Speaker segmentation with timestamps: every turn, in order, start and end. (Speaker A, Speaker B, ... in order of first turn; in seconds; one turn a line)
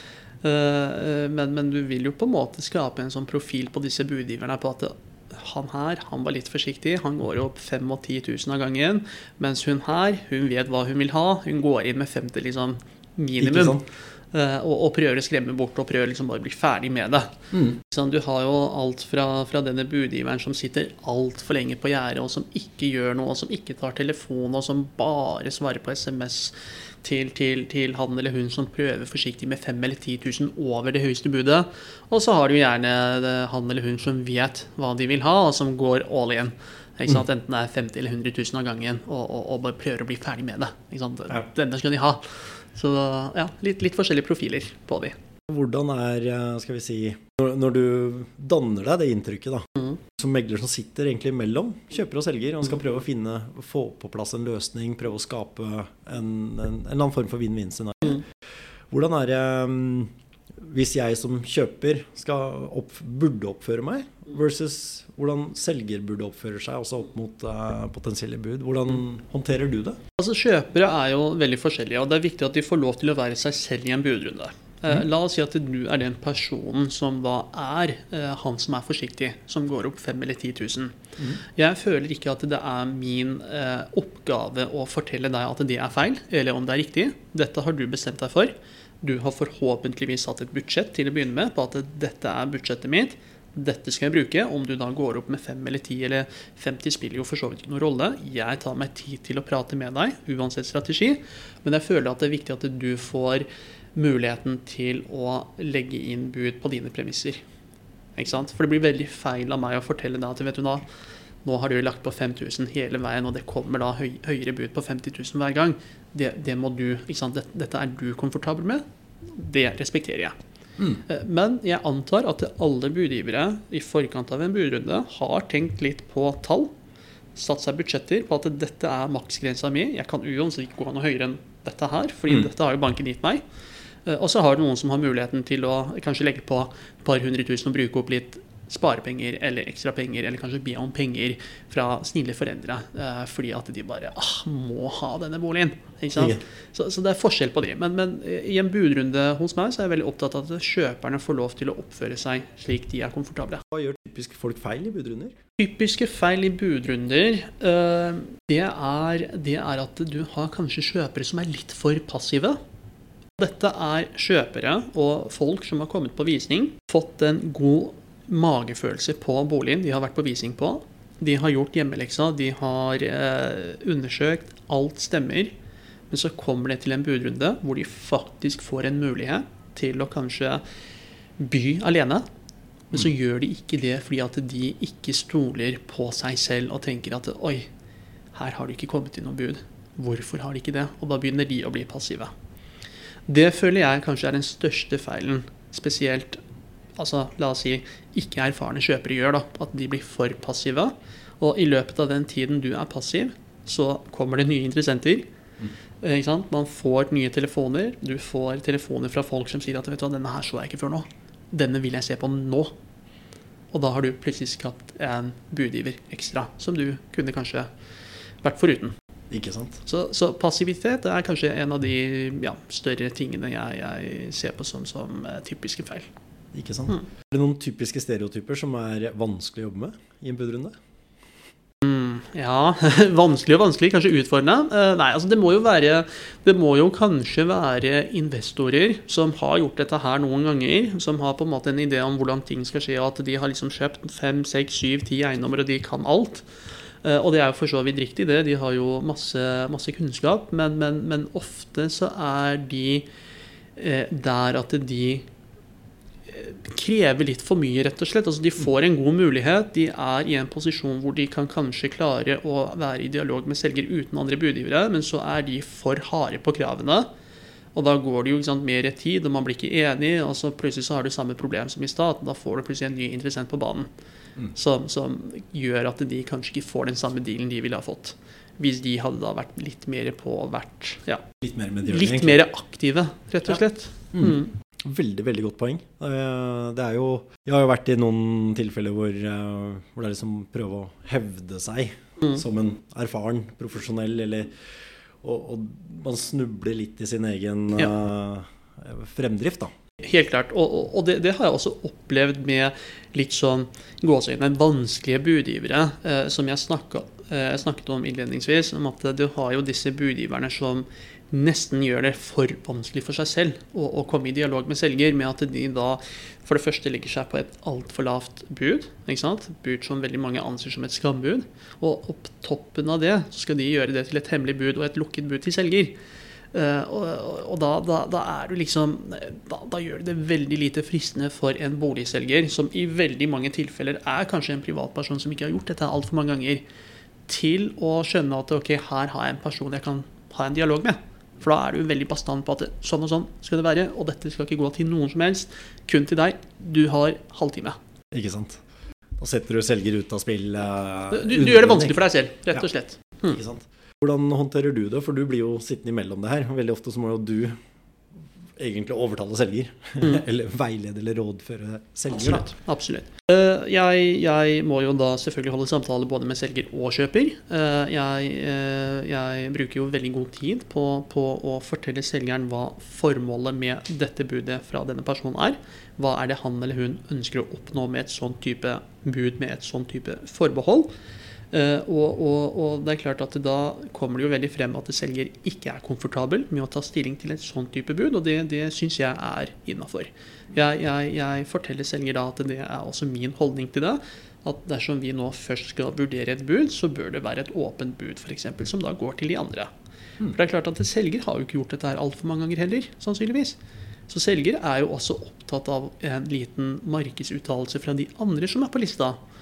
Speaker A: 0.4-13.8
Speaker B: 13.4-13.8
Speaker A: 14.3-45.2
Speaker B: 17.5-17.8
Speaker B: 45.5-58.2
Speaker B: 58.9-70.0
Speaker A: 70.2-107.4
Speaker A: 108.2-110.8
Speaker A: 111.4-120.4
Speaker A: 121.0-126.7
Speaker A: 127.3-133.4
Speaker A: 134.0-153.6
Speaker B: 153.7-155.3
Speaker A: 155.6-162.6
Speaker A: 163.4-175.5
Speaker A: 176.1-180.6
Speaker A: 181.4-182.2
Speaker A: 182.9-187.7
Speaker A: 188.3-192.3
Speaker A: 193.3-196.4
Speaker A: 197.0-205.3
Speaker A: 206.0-212.7
Speaker A: 213.7-217.7
Speaker A: 218.4-218.9
Speaker B: 219.3-219.8
Speaker A: 219.8-226.1
Speaker B: 226.5-230.8
Speaker A: 231.8-246.5
Speaker A: 247.0-253.1
Speaker A: 253.8-255.2
Speaker A: 256.3-267.1
Speaker A: 267.7-273.9
Speaker A: 274.5-281.2
Speaker B: 281.4-282.4
Speaker A: 281.9-284.5
Speaker B: 284.1-294.5
Speaker B: 295.2-299.7
Speaker A: 300.0-325.9
Speaker A: 326.5-336.6
Speaker A: 337.3-347.8
Speaker B: 348.1-348.6
Speaker B: 349.2-352.0
Speaker A: 351.1-353.4
Speaker B: 353.2-357.6
Speaker B: 358.6-362.5
Speaker A: 362.1-380.9
Speaker A: 381.5-399.7
Speaker A: 400.3-409.2